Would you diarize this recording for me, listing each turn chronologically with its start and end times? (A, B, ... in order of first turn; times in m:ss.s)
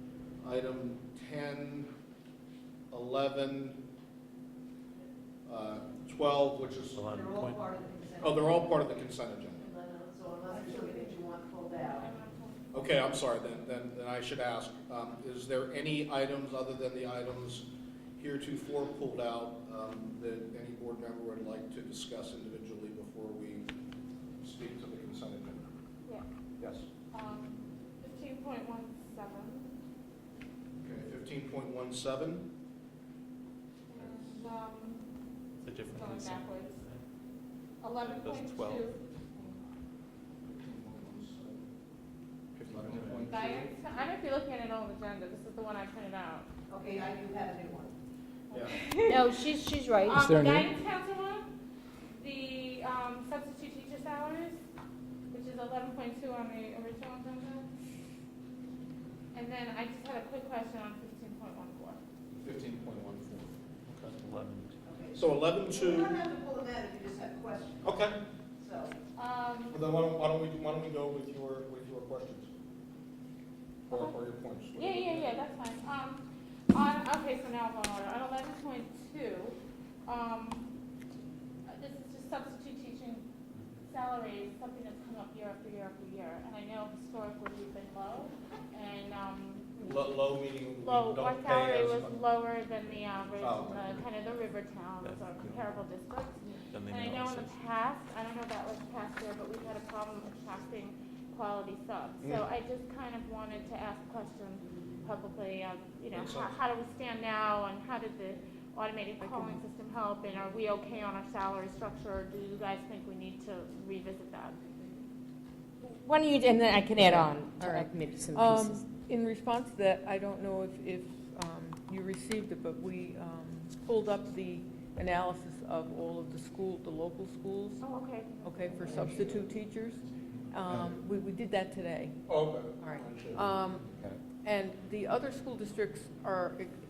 0:00.4-0:01.9 A
0:02.9-0:03.8 A
0:05.5-0:07.1 A
0:06.7-0:07.7 B
0:07.1-0:08.6 C
0:08.2-0:09.7 A
0:09.6-0:12.1 C
0:10.5-0:13.1 D
0:12.7-0:17.7 A
0:18.2-0:23.7 A
0:24.4-0:25.7 A
0:26.6-0:26.9 A
0:27.1-0:29.7 D
0:30.8-0:32.4 A
0:33.9-0:35.0 D
0:34.0-0:34.2 B
0:35.6-0:37.0 B
0:35.8-0:36.8 D
0:37.8-0:39.5 D
0:38.0-0:39.0 B
0:40.4-0:41.7 A
0:42.6-0:43.7 A
0:42.7-0:43.3 B
0:43.3-0:46.5 D
0:46.7-0:47.9 C
0:48.5-0:51.4 D
0:48.5-0:48.8 A
0:49.1-0:50.6 E
0:52.2-0:54.6 D
0:55.3-0:57.6 D
0:59.3-1:02.0 D
1:02.4-1:04.1 A
1:04.2-1:04.7 B
1:04.8-1:08.0 C
1:05.2-1:06.2 A
1:07.8-1:08.2 A
1:08.6-1:09.0 C
1:09.2-1:09.8 D
1:09.7-1:12.5 A
1:13.9-1:15.3 A
1:13.9-1:14.2 D
1:14.7-1:20.7 D
1:21.7-1:23.2 D
1:23.8-1:29.9 D
1:29.8-1:32.1 A
1:30.8-1:54.6 D
1:32.7-1:33.7 B
1:33.4-1:34.0 A
1:35.0-1:35.8 B
1:36.7-1:37.6 B
1:46.1-1:46.5 A
1:56.2-1:58.8 E
1:57.0-2:07.8 F
2:07.8-2:09.2 D
2:08.5-2:10.0 F
2:08.8-2:09.4 A
2:10.5-2:12.1 F
2:12.3-2:13.6 A
2:12.8-2:13.8 F
2:14.4-2:16.7 F